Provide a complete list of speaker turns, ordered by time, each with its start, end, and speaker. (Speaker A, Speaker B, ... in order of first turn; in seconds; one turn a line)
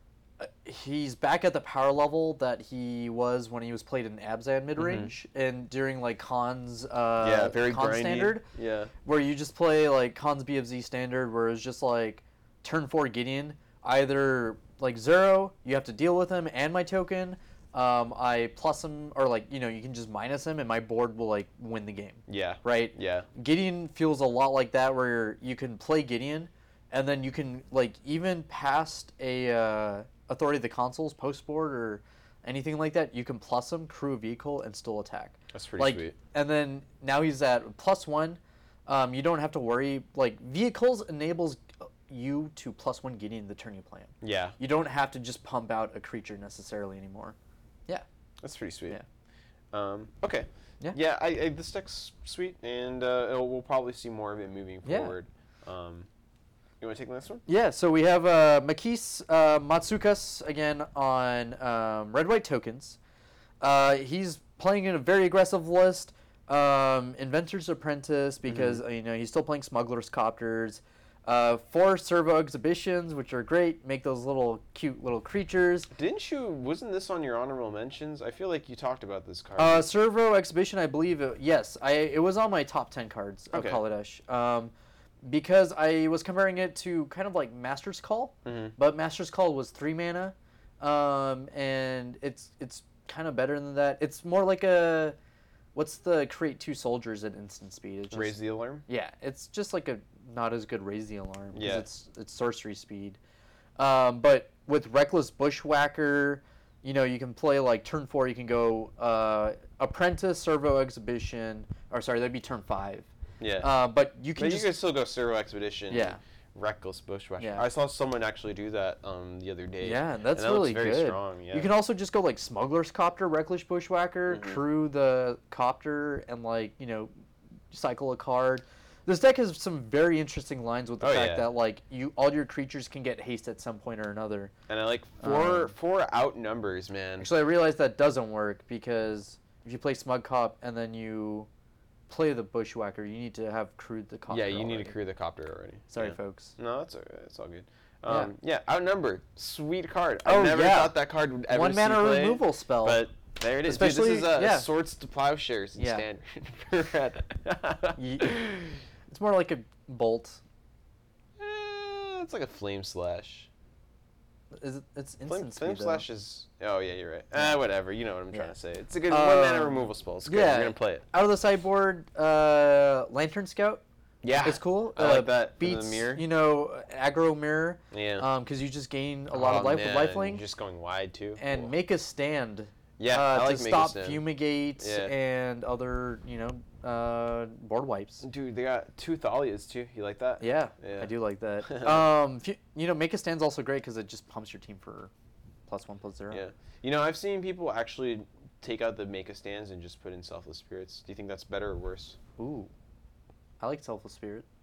Speaker A: 0.4-8.4
Speaker B: 4.8-5.1
Speaker B: 7.2-8.9
Speaker A: 9.1-47.4
Speaker B: 22.3-23.3
Speaker B: 35.5-36.2
Speaker B: 44.2-44.6
Speaker B: 48.4-49.0
Speaker B: 49.7-56.1
Speaker A: 54.9-55.1
Speaker B: 56.8-57.4
Speaker A: 57.5-63.0
Speaker A: 63.6-75.9
Speaker B: 68.5-68.8
Speaker B: 75.9-79.9
Speaker A: 79.6-84.7
Speaker B: 83.5-83.8
Speaker A: 85.2-95.2
Speaker B: 88.5-88.7
Speaker A: 95.8-103.2
Speaker B: 98.1-98.8
Speaker B: 101.5-101.9
Speaker A: 103.8-113.1
Speaker B: 113.4-113.7
Speaker A: 113.6-114.7
Speaker B: 114.4-121.7
Speaker A: 115.9-116.2
Speaker A: 117.4-117.7
Speaker A: 119.8-127.1
Speaker B: 124.3-124.6
Speaker A: 127.7-134.5
Speaker B: 131.0-131.5
Speaker B: 134.7-137.3
Speaker A: 135.2-135.7
Speaker A: 137.2-141.5
Speaker A: 142.1-145.0
Speaker B: 144.3-158.8
Speaker A: 145.9-146.6
Speaker A: 150.2-153.1
Speaker A: 153.6-154.7
Speaker A: 155.8-156.0
Speaker A: 158.0-158.4
Speaker A: 159.1-160.4
Speaker B: 161.4-163.5
Speaker A: 164.5-166.0
Speaker B: 165.3-171.1
Speaker A: 169.1-173.8
Speaker B: 174.2-176.2
Speaker A: 174.4-180.4
Speaker B: 177.9-178.3
Speaker B: 179.3-181.7
Speaker A: 181.4-188.2
Speaker B: 183.0-184.3
Speaker B: 184.8-185.1
Speaker B: 188.2-191.1
Speaker A: 190.4-195.1
Speaker B: 191.6-192.1
Speaker A: 195.7-196.4
Speaker B: 196.3-202.2
Speaker A: 202.4-202.7
Speaker A: 203.6-204.4